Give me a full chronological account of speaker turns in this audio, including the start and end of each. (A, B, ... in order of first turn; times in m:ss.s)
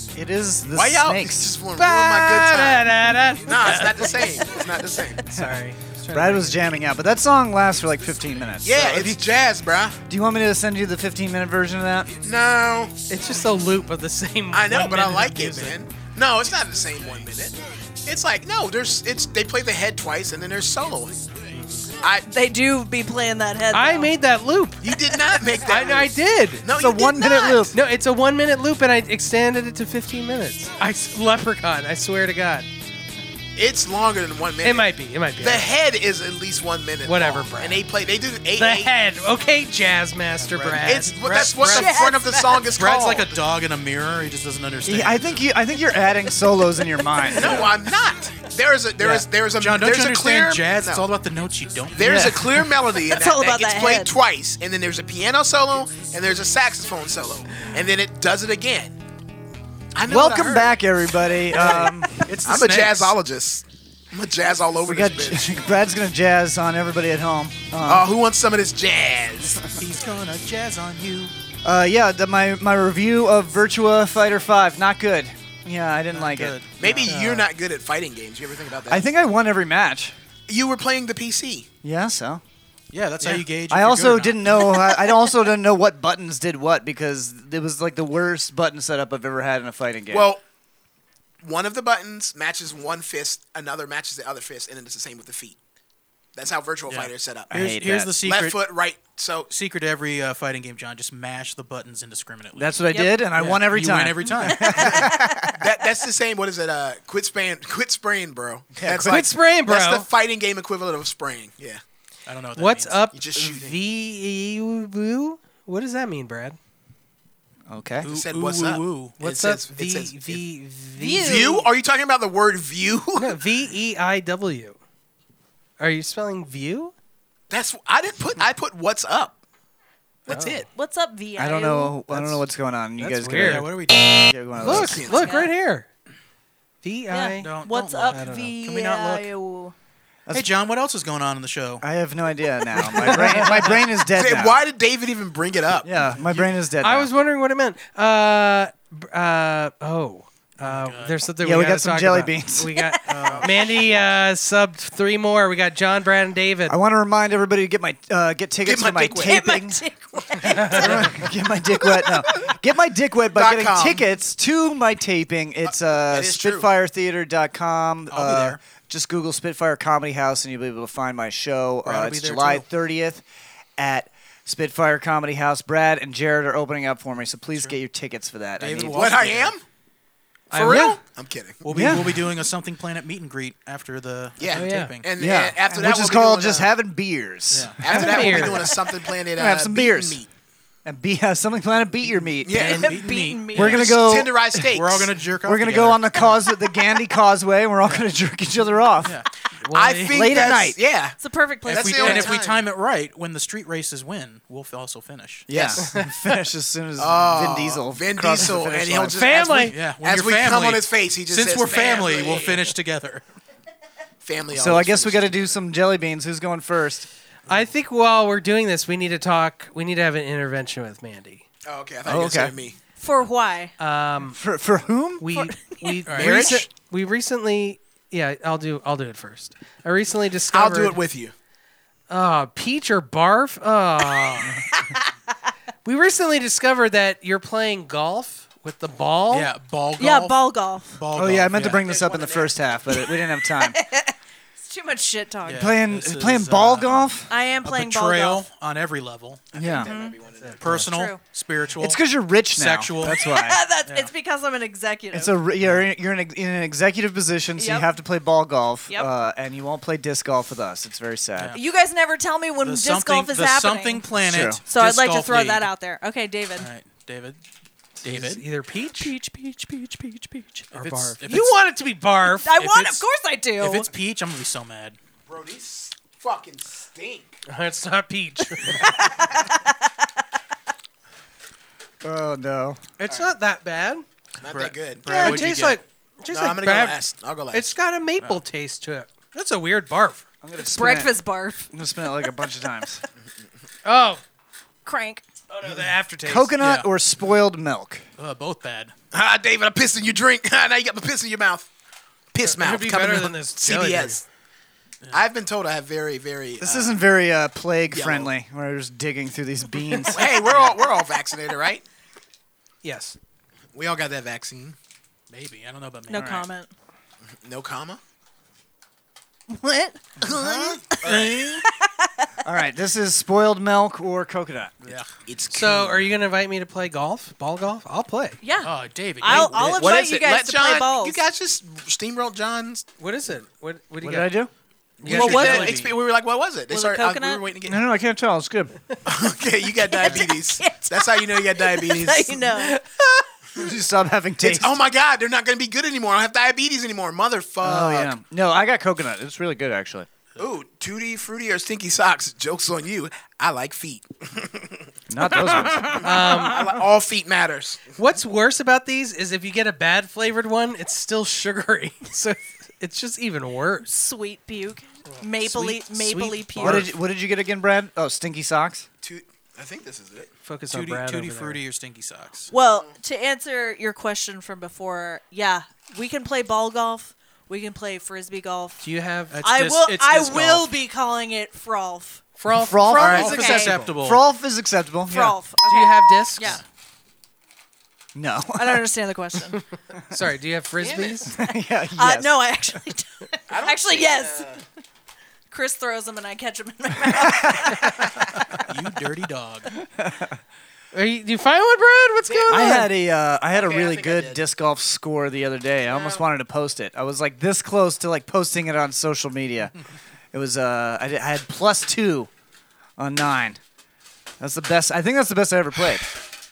0:00.1-0:01.6 A
0:00.7-0:05.2 B
0:01.8-0:04.4 C
0:05.2-0:06.8 C
0:06.1-0:09.2 A
0:08.6-0:10.0 B
0:10.1-0:12.1 A
0:12.2-0:13.0 B
0:13.1-0:15.8 C
0:14.5-0:21.2 B
0:21.5-0:21.9 C
0:22.0-0:22.3 B
0:22.3-0:24.1 D
0:23.7-0:24.9 C
0:24.8-0:27.7 B
0:25.6-0:26.7 C
0:26.7-0:27.8 A
0:27.2-0:27.6 D
0:27.7-0:32.7 C
0:33.6-0:39.0 B
0:34.6-0:35.7 C
0:37.0-0:37.8 C
0:38.6-0:41.7 C
0:40.4-0:42.0 E
0:40.8-0:43.4 B
0:41.6-0:42.7 D
0:42.7-0:45.3 E
0:44.9-0:47.7 A
0:47.3-0:51.1 B
0:47.4-0:47.7 E
0:49.0-0:52.6 E
0:52.0-0:59.0 B
0:52.0-0:52.6 A
0:53.1-0:54.1 D
1:00.0-1:00.8 B
1:00.0-1:02.3 A
1:01.5-1:01.9 B
1:01.7-1:03.2 E
1:02.4-1:05.6 B
1:04.8-1:08.1 A
1:07.8-1:09.7 B
1:09.8-1:11.3 E
1:11.6-1:17.2 A
1:16.1-1:17.2 E
1:16.8-1:19.1 B
1:17.1-1:17.4 C
1:18.9-1:20.2 A
1:20.5-1:21.7 B
1:21.8-1:22.4 A
1:22.9-1:24.8 E
1:23.2-1:30.3 A
1:30.1-1:30.4 B
1:31.4-1:35.6 B
1:36.4-1:37.5 B
1:36.9-1:38.6 E
1:37.5-1:38.2 A
1:38.2-1:39.5 B
1:39.5-1:44.9 E
1:42.6-1:45.6 A
1:42.9-1:43.2 D
1:44.5-1:45.5 D
1:45.6-1:51.8 B
1:48.8-1:49.2 A
1:49.1-1:50.1 C
1:52.3-1:53.0 E
1:52.6-1:56.6 C
1:53.1-1:53.8 B
1:57.7-1:58.1 A
1:58.0-1:59.2 E
1:58.0-2:00.4 B
1:59.2-2:01.6 C
2:01.0-2:03.4 B
2:01.1-2:01.6 D
2:03.2-2:04.8 C
2:05.8-2:06.9 C
2:07.5-2:09.4 B
2:10.3-2:10.7 B
2:10.3-2:10.6 C
2:10.6-2:12.0 D
2:11.4-2:15.1 A
2:13.0-2:13.7 C
2:13.3-2:14.3 E
2:14.6-2:15.9 C
2:14.6-2:15.3 B
2:15.2-2:15.5 D
2:16.8-2:17.6 C
2:17.1-2:19.7 D
2:17.4-2:19.3 E
2:18.1-2:18.5 C
2:20.3-2:21.8 E
2:21.8-2:24.6 A
2:24.0-2:25.9 B
2:25.8-2:27.1 A
2:26.1-2:26.5 E
2:26.8-2:36.8 C
2:30.6-2:31.2 E
2:31.4-2:32.8 A
2:33.1-2:33.5 E
2:33.2-2:33.5 B
2:36.7-2:39.8 A
2:38.6-2:39.4 B
2:39.2-2:41.2 D
2:40.4-2:53.2 A
2:40.6-2:40.9 C
2:43.3-2:44.0 B
2:45.7-2:46.7 B
2:48.1-2:48.6 E
2:51.8-2:52.6 E
2:53.8-2:59.1 A
2:58.6-2:59.6 E
2:58.9-2:59.6 B
3:00.5-3:01.0 C
3:00.5-3:01.6 B
3:00.6-3:01.0 A
3:01.6-3:05.1 E
3:01.7-3:02.2 A
3:04.4-3:06.7 B
3:04.5-3:04.9 C
3:05.2-3:08.8 A
3:07.5-3:07.8 E
3:07.8-3:10.3 B
3:07.9-3:08.7 C
3:09.3-3:10.2 A
3:10.8-3:12.8 A
3:12.4-3:15.1 B
3:12.5-3:13.9 E
3:12.6-3:13.9 D
3:13.5-3:14.8 A
3:14.7-3:16.4 E
3:15.4-3:19.2 A
3:19.6-3:20.4 C
3:19.7-3:22.6 B
3:20.1-3:20.8 A
3:21.2-3:22.4 D
3:21.7-3:25.5 E
3:25.5-3:29.3 A
3:25.5-3:25.9 B
3:25.8-3:26.2 C
3:27.0-3:32.6 B
3:29.1-3:29.8 C
3:29.7-3:33.2 E
3:34.2-3:35.6 B
3:34.5-3:37.1 A
3:37.5-3:41.4 C
3:41.6-3:42.8 B
3:42.1-3:42.6 A
3:43.0-3:43.7 D
3:43.8-3:44.4 C
3:44.3-3:45.4 A
3:45.2-3:51.0 C
3:45.4-3:46.0 D
3:46.1-3:46.5 E
3:46.1-3:46.7 B
3:50.5-3:51.3 B
3:52.1-3:54.6 C
3:54.8-3:55.0 D
3:55.8-3:59.5 C
3:59.3-4:01.9 E
4:00.0-4:01.0 D
4:01.2-4:03.8 A
4:01.7-4:02.6 B
4:03.1-4:05.7 D
4:05.4-4:07.0 E
4:05.5-4:07.3 A
4:07.3-4:08.5 D
4:07.6-4:09.5 E
4:09.5-4:10.8 B
4:09.5-4:09.9 A
4:09.7-4:10.2 D
4:10.4-4:10.8 C
4:10.6-4:13.2 E
4:10.8-4:11.2 D
4:11.8-4:13.6 A
4:13.1-4:15.4 D
4:13.8-4:14.1 E
4:15.1-4:21.6 A
4:15.6-4:15.9 E
4:17.6-4:17.9 D
4:21.5-4:26.7 D
4:22.6-4:25.7 E
4:24.2-4:24.6 A
4:26.6-4:27.4 E
4:28.0-4:28.4 E
4:28.0-4:29.1 C
4:29.0-4:30.6 D
4:30.7-4:31.6 E
4:30.7-4:32.6 C
4:32.4-4:33.9 D
4:32.6-4:33.0 E
4:33.6-4:35.0 E
4:35.3-4:37.4 B
4:37.5-4:39.0 C
4:38.6-4:39.9 D
4:42.0-4:42.8 A
4:43.0-4:44.0 C
4:44.4-4:45.4 B
4:44.4-4:45.8 E
4:45.1-4:50.2 C
4:46.3-4:47.7 B
4:50.4-4:51.1 A
4:50.6-4:51.7 D
4:51.7-4:53.0 A
4:53.8-4:54.2 C
4:54.8-4:55.2 D
4:55.5-4:56.5 C
4:56.2-4:58.0 A
4:56.6-4:56.9 E
4:58.2-4:58.9 E
4:59.1-5:01.7 B
5:02.3-5:04.2 B
5:02.4-5:04.2 C
5:05.1-5:07.0 B
5:06.6-5:10.5 A
5:07.9-5:08.3 B
5:10.1-5:11.8 B
5:12.8-5:13.2 C
5:13.7-5:14.8 B
5:15.3-5:16.5 E
5:16.1-5:16.7 D
5:17.3-5:18.0 B
5:19.5-5:20.1 D
5:20.2-5:21.6 B
5:20.2-5:20.7 A
5:21.0-5:21.6 E
5:21.6-5:22.3 D
5:22.4-5:24.9 A
5:24.8-5:25.1 E
5:25.3-5:26.1 B
5:25.5-5:28.4 C
5:28.4-5:31.2 D
5:28.6-5:30.0 E
5:29.3-5:32.9 B
5:33.0-5:34.3 C
5:34.0-5:34.5 A
5:35.0-5:35.7 C
5:35.0-5:36.0 E
5:35.0-5:37.8 B
5:35.1-5:35.8 D
5:36.7-5:37.4 D
5:37.6-5:38.8 A
5:39.0-5:42.6 B
5:39.8-5:42.8 D
5:43.6-5:44.8 A
5:44.4-5:48.2 B
5:47.6-5:50.1 A
5:50.4-5:54.9 B
5:55.1-5:56.3 A
5:55.9-5:57.9 B
5:56.0-5:56.6 C
5:58.0-6:04.0 C
6:03.9-6:06.9 D
6:05.2-6:06.9 C
6:06.6-6:08.9 A
6:09.0-6:10.3 B
6:10.4-6:11.6 C
6:10.7-6:12.5 E
6:12.5-6:18.8 D
6:12.5-6:12.9 B
6:18.8-6:19.4 C
6:19.3-6:20.7 E
6:19.4-6:22.2 D
6:22.4-6:23.9 C
6:22.5-6:25.4 A
6:23.0-6:24.2 E
6:23.1-6:23.8 D
6:25.1-6:26.6 D
6:25.6-6:26.6 C
6:28.2-6:28.9 A
6:28.6-6:29.6 D
6:30.1-6:31.3 C
6:30.8-6:34.5 D
6:31.3-6:32.3 A
6:33.5-6:34.6 B
6:35.5-6:38.6 D
6:37.1-6:38.1 A
6:38.6-6:39.7 E
6:40.0-6:40.4 A
6:40.9-6:42.9 C
6:42.2-6:42.9 B
6:42.5-6:49.7 A
6:43.5-6:44.4 B
6:50.3-6:52.3 A
6:53.0-6:53.6 A
6:54.4-6:56.2 A